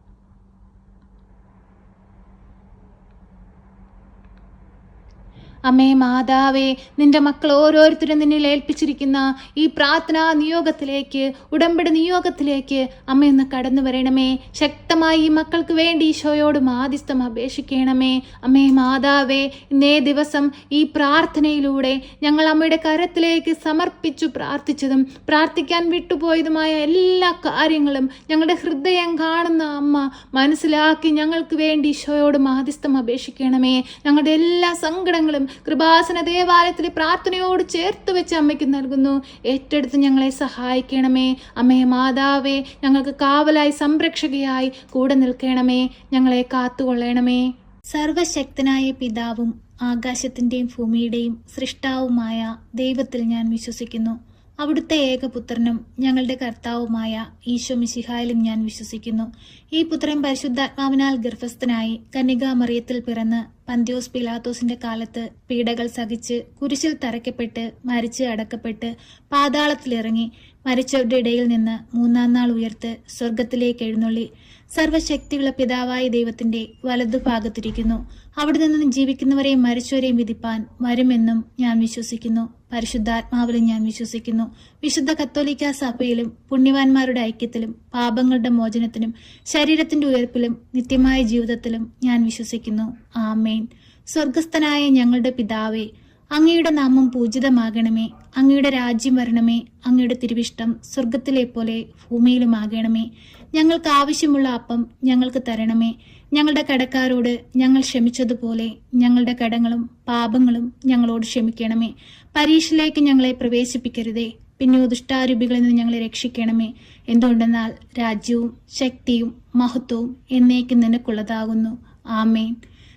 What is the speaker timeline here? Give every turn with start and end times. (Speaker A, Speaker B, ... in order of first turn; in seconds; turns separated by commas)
Speaker A: 5.7-122.5